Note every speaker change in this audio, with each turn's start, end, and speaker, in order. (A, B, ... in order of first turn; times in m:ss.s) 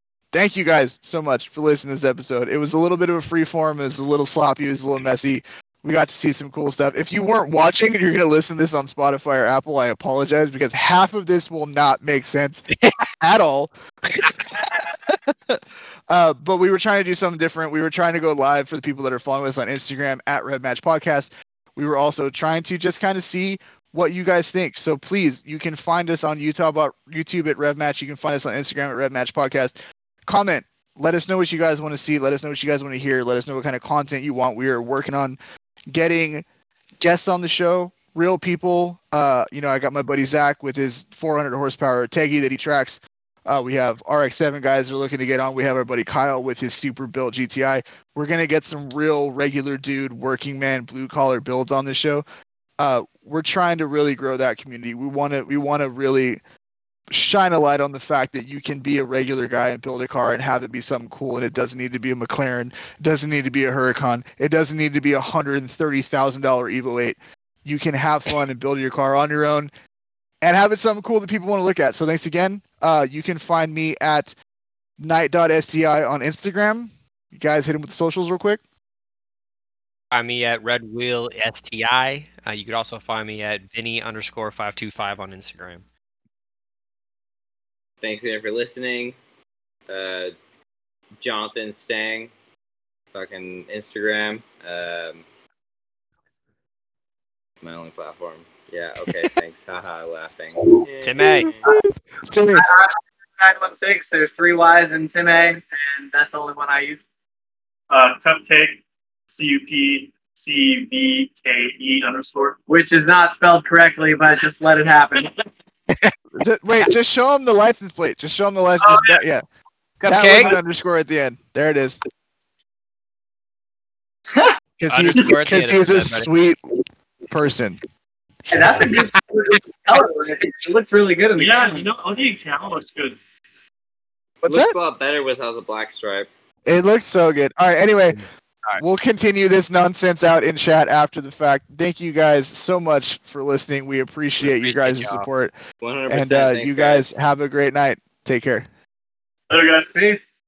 0:00.3-0:29.7 A
0:30.2-0:35.4 A
0:35.9-0:36.4 A
0:37.0-0:52.2 A
0:52.8-0:56.4 A
0:57.1-1:09.7 A
1:10.4-1:14.3 A
1:15.0-1:18.6 A
1:20.1-1:25.8 B
1:28.0-1:29.2 C
1:29.9-1:30.3 C
1:31.2-1:32.3 C
1:33.1-1:35.2 C
1:37.6-1:41.6 C
1:41.0-1:41.5 B
1:41.6-1:42.6 A
1:42.5-1:47.0 D
1:47.9-1:52.6 E
1:52.7-1:55.3 D
1:56.3-1:59.4 A
1:58.8-1:59.2 E
2:00.0-2:00.6 B
2:00.0-2:02.0 A
2:04.8-2:07.8 A
2:04.9-2:06.3 B
2:08.5-2:11.8 D
2:11.4-2:13.2 E
2:14.4-2:14.8 A
2:14.4-2:16.3 C
2:16.6-2:18.2 A
2:18.8-2:25.5 A
2:24.4-2:25.3 B
2:25.8-2:27.2 C
2:26.1-2:28.7 A
2:29.5-2:29.9 E
2:29.9-2:30.2 D